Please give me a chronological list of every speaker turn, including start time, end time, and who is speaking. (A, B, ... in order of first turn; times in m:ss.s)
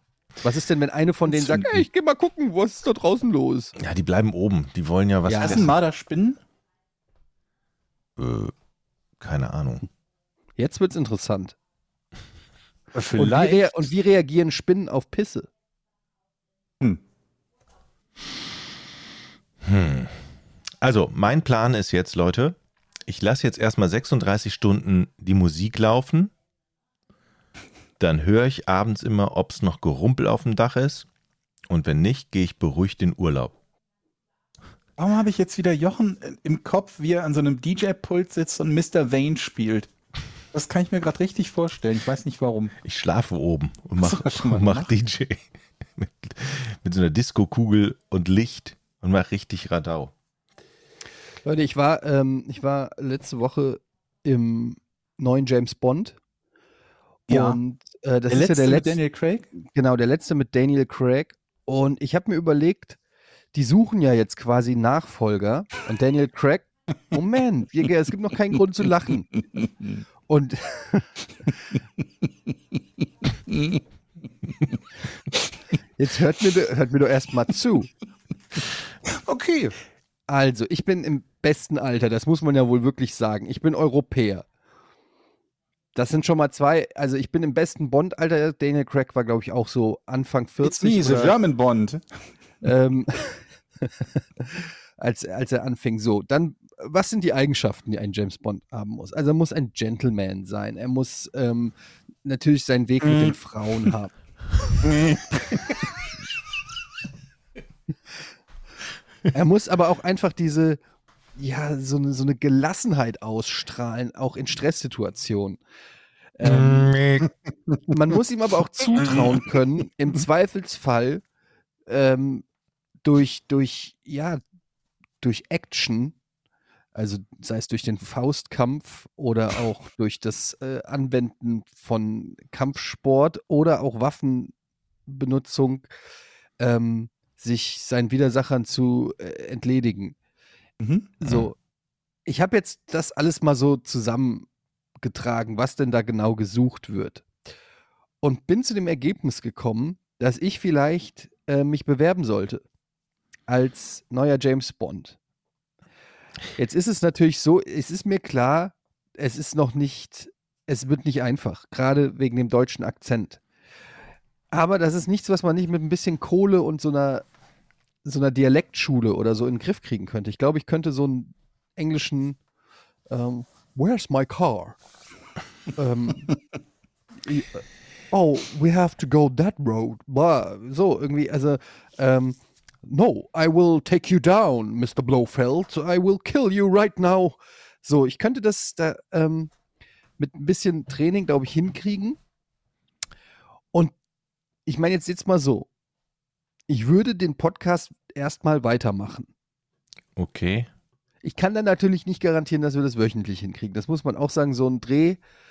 0:00.4-0:03.8 A
0:03.8-0:05.7 B
0:05.3-0:05.7 A
0:05.4-0:06.4 C
0:08.2-0:08.5 B
0:09.2-0:09.8 B
0:10.6-0:11.6 A
0:12.9-0:13.9 C
0:13.1-0:15.5 A
0:19.6-0:20.3 B
0:20.8-0:26.3 B
0:28.0-0:31.1 B
0:31.7-0:33.6 B
0:35.0-0:39.9 C
0:40.5-0:42.7 C
0:42.8-0:45.4 B
0:44.0-0:44.9 C
0:46.0-0:50.1 B
0:51.4-0:56.2 A
0:57.3-0:59.0 A
0:57.3-0:57.6 C
0:58.3-0:59.5 C
0:59.6-1:03.0 A
1:03.5-1:09.3 A
1:10.3-1:11.2 A
1:13.5-1:13.8 C
1:16.0-1:17.9 A
1:19.1-1:19.8 C
1:20.3-1:24.5 A
1:26.0-1:31.4 A
1:30.6-1:32.0 C
1:32.6-1:44.1 A
1:44.8-1:45.4 C
1:49.3-1:50.8 A
1:51.4-1:55.6 A
1:56.4-1:57.0 A
1:56.4-1:57.3 B
1:57.9-2:01.2 A
2:01.9-2:02.4 A
2:03.0-2:04.4 A
2:05.2-2:06.2 A
2:07.0-2:14.5 A
2:15.1-2:15.9 A
2:16.6-2:20.2 A
2:20.8-2:21.1 C
2:21.2-2:21.6 A
2:21.2-2:21.5 B
2:22.3-2:24.5 A
2:25.0-2:27.3 A
2:28.2-2:32.6 A
2:33.5-2:35.2 A
2:36.6-2:43.4 A
2:44.5-2:47.2 A
2:48.0-2:52.4 A
2:53.1-2:54.8 A
2:55.8-2:56.3 A
2:57.2-3:09.5 A
3:10.2-3:12.2 A
3:14.7-3:15.7 A
3:16.7-3:19.3 A
3:20.2-3:20.7 B
3:21.2-3:25.2 A